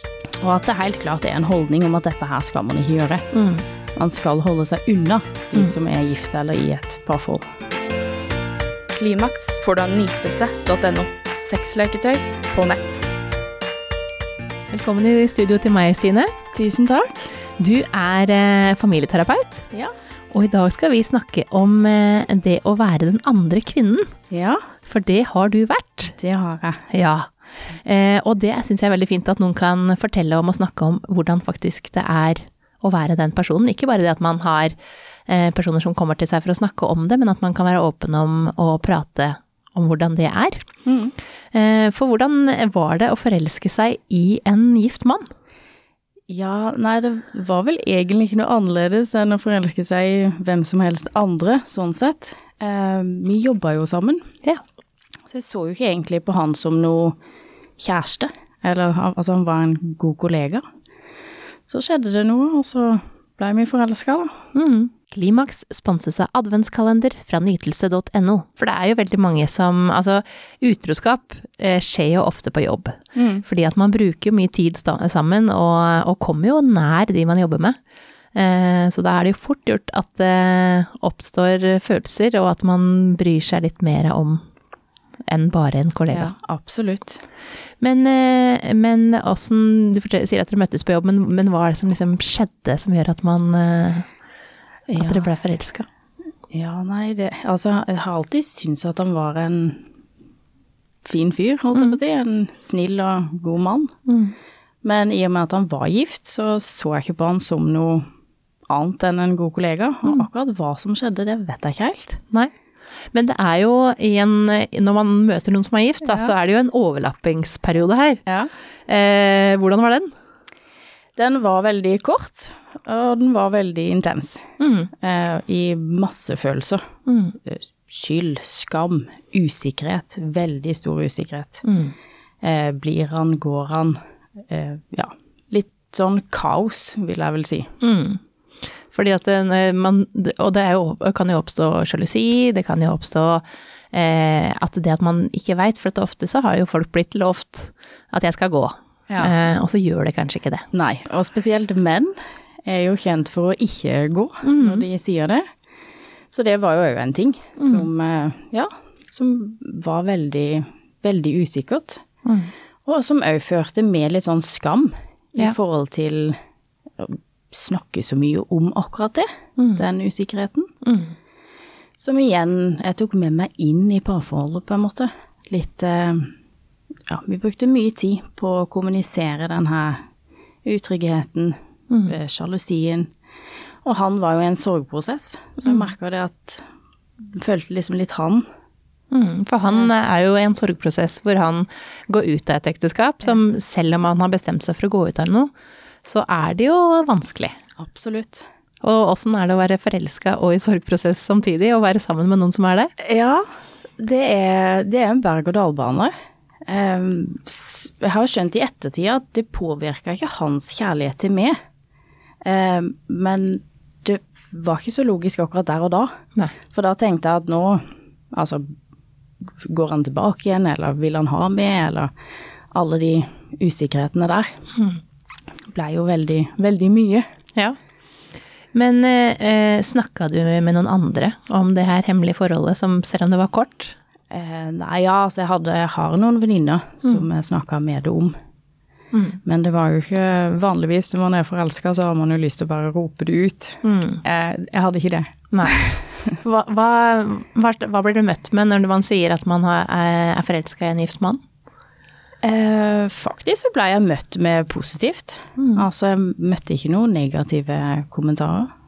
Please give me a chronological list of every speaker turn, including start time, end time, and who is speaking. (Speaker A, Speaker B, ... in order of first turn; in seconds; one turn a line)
Speaker A: 0.4-3.3
Speaker B: 3.3-3.6
Speaker A: 4.0-7.4
Speaker C: 8.9-13.1
Speaker B: 14.7-16.3
Speaker A: 16.5-17.3
Speaker B: 17.6-19.7
Speaker B: 20.3-24.1
Speaker A: 24.3-24.6
Speaker B: 24.9-26.1
Speaker A: 26.2-26.9
Speaker B: 26.9-27.3
Speaker B: 27.8-34.8
Speaker B: 35.3-40.7
Speaker A: 40.8-41.1
Speaker B: 41.5-45.3
Speaker A: 46.3-54.3
Speaker A: 55.3-57.2
Speaker A: 57.8-60.6
Speaker A: 61.7-64.3
Speaker B: 64.5-77.8
Speaker A: 73.1-73.4
Speaker B: 78.3-84.4
Speaker B: 85.3-86.3
Speaker A: 86.1-87.2
Speaker B: 87.8-94.1
Speaker A: 94.9-95.3
Speaker B: 95.0-95.9
Speaker A: 96.5-99.9
Speaker A: 101.0-103.9
Speaker B: 101.7-102.0
Speaker B: 104.1-104.3
Speaker A: 104.8-108.0
Speaker A: 108.7-112.2
Speaker B: 113.1-118.2
Speaker A: 118.2-118.5
Speaker B: 118.9-120.1
Speaker A: 121.2-126.8
Speaker B: 124.6-124.9
Speaker B: 127.1-127.3
Speaker A: 127.4-131.6
Speaker B: 131.6-131.9
Speaker A: 132.4-137.7
Speaker B: 137.8-138.2
Speaker B: 138.9-150.7
Speaker A: 149.1-149.3
Speaker A: 150.7-155.4
Speaker B: 154.4-154.8
Speaker A: 156.3-162.0
Speaker B: 157.6-157.9
Speaker B: 162.2-162.5
Speaker A: 162.8-166.3
Speaker A: 167.0-170.7
Speaker B: 169.6-169.8
Speaker B: 170.8-171.1
Speaker A: 172.0-176.3
Speaker A: 177.1-180.0
Speaker A: 180.6-183.1
Speaker B: 181.9-182.1
Speaker A: 183.8-186.6
Speaker B: 185.6-185.9
Speaker A: 187.3-188.4
Speaker B: 189.1-195.5
Speaker B: 196.0-197.5
Speaker A: 197.8-198.4
Speaker B: 198.8-202.9
Speaker A: 203.0-203.4
Speaker A: 204.0-206.1
Speaker A: 206.7-211.6
Speaker A: 212.4-216.1
Speaker A: 216.7-218.7
Speaker A: 219.5-222.1
Speaker A: 222.7-224.6
Speaker A: 225.7-227.2
Speaker B: 228.7-233.9
Speaker A: 234.3-238.3
Speaker B: 239.1-239.4
Speaker A: 239.4-246.1
Speaker B: 243.8-244.2
Speaker B: 245.5-251.4
Speaker A: 252.4-258.7
Speaker B: 255.6-255.8